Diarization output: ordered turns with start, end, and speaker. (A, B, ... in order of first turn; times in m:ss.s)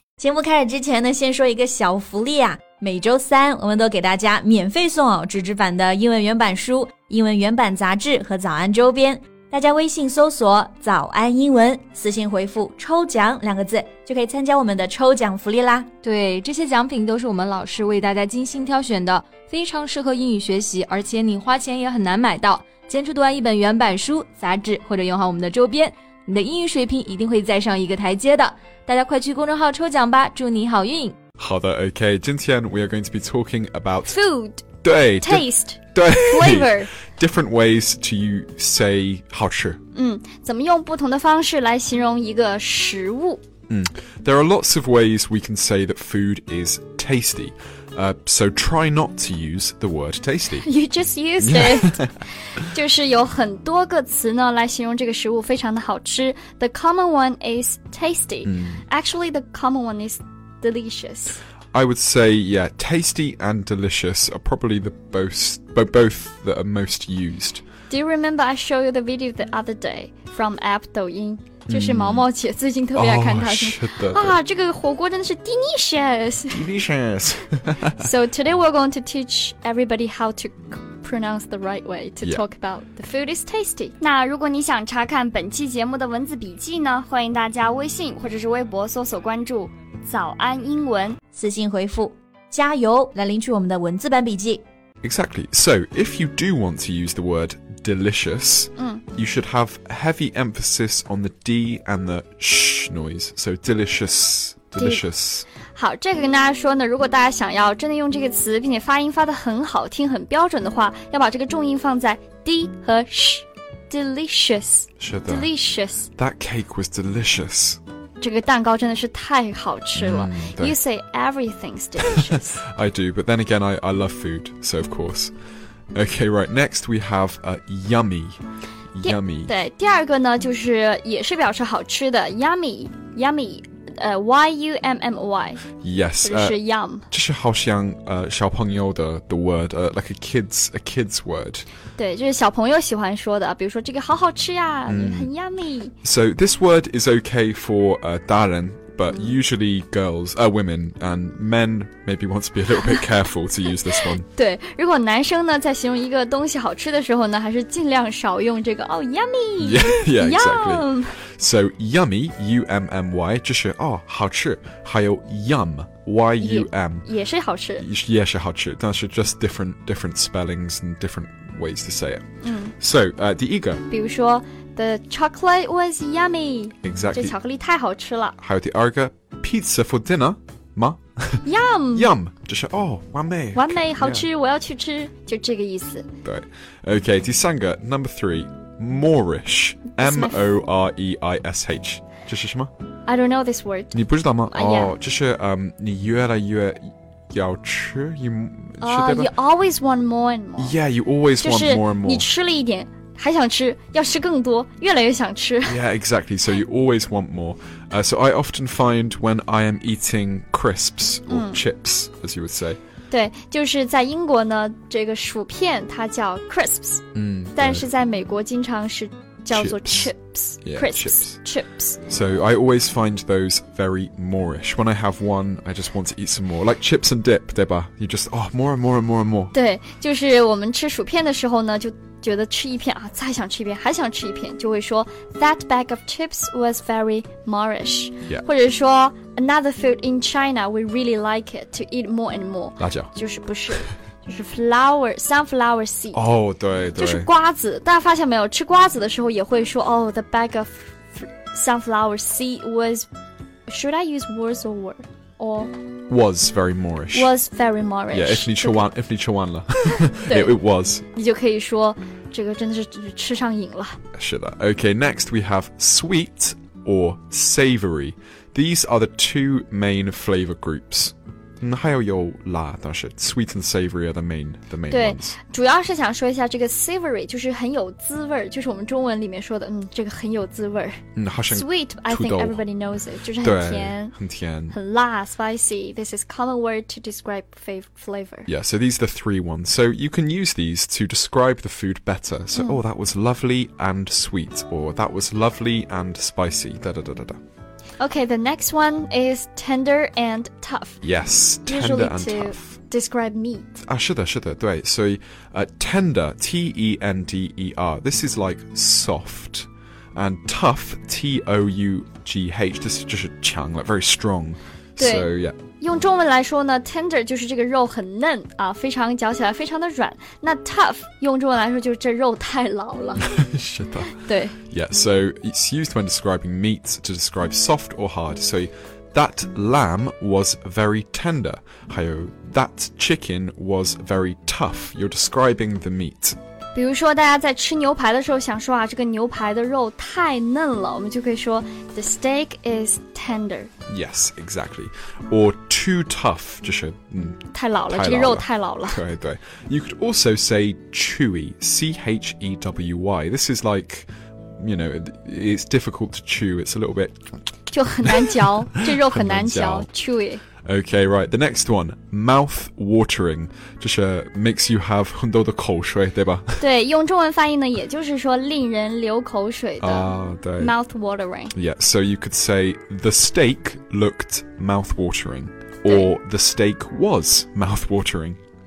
0:00.2-0:15.9 A
0:16.0-0:31.2 B
0:31.4-0:34.1 C
0:34.1-0:36.9 D
0:34.8-0:39.8 C
0:39.9-0:43.4 D
0:43.7-0:50.7 C
0:50.6-0:52.0 D
0:51.4-0:52.1 C
0:52.6-1:01.4 D
0:58.5-0:58.8 C
1:01.7-1:07.6 C
1:07.9-1:16.7 D
1:11.7-1:12.3 C
1:13.0-1:14.4 C
1:16.5-1:18.0 C
1:18.0-1:31.2 D
1:31.3-1:34.6 A
1:35.0-1:45.4 C
1:38.8-1:39.0 D
1:44.8-1:45.0 D
1:45.7-1:56.1 D
1:55.0-1:55.5 C
1:56.2-1:57.8 C
1:58.2-2:02.6 D
2:00.0-2:00.8 C
2:02.0-2:05.3 C
2:05.9-2:08.4 C
2:09.0-2:09.5 C
2:09.0-2:15.7 D
2:15.8-2:16.6 C
2:16.2-2:17.1 D
2:17.1-2:21.6 C
2:22.0-2:25.9 D
2:24.9-2:25.3 C
2:26.0-2:34.3 C
2:34.3-2:41.2 D
2:39.6-2:47.1 C
2:46.4-2:47.8 D
2:47.8-2:52.3 C
2:52.4-2:52.7 D
2:52.8-2:53.8 C
2:53.9-2:58.4 D
2:56.8-2:57.4 C
2:58.4-3:04.3 C
3:01.4-3:02.1 D
3:03.6-3:06.1 D
3:06.2-3:12.7 C
3:10.0-3:10.4 D
3:13.1-3:15.0 D
3:13.9-3:19.3 C
3:18.8-3:20.8 D
3:20.6-3:22.3 C
3:21.4-3:25.8 D
3:25.6-3:32.8 C
3:31.3-3:31.6 D
3:33.1-3:42.0 D
3:37.2-3:37.8 C
3:39.5-3:41.4 C
3:42.1-3:49.5 C
3:49.5-4:06.2 D
4:02.8-4:03.1 C
4:06.1-4:07.3 C
4:07.0-4:13.1 D
4:13.7-4:15.7 D
4:16.1-4:17.3 C
4:17.1-4:18.8 D
4:18.1-4:21.0 C
4:20.2-4:20.6 D
4:21.1-4:24.0 D
4:24.2-4:35.3 C
4:34.9-4:44.2 D
4:41.2-4:42.6 C
4:43.4-4:44.8 C
4:44.7-4:48.5 D
4:48.5-4:57.4 C
4:52.6-4:52.8 D
4:58.0-5:01.0 D
5:01.0-5:02.7 C
5:01.7-5:03.8 D
5:03.9-5:15.6 C
5:15.0-5:23.3 D
5:23.3-5:24.1 C
5:24.1-5:24.6 D
5:24.7-5:36.4 C
5:36.7-5:43.7 D
5:43.9-5:57.3 C
5:47.5-5:49.0 D
5:57.7-6:00.4 D
5:58.2-5:59.9 C
6:00.6-6:06.6 C
6:06.6-6:11.5 D
6:09.8-6:10.7 C
6:11.5-6:18.4 C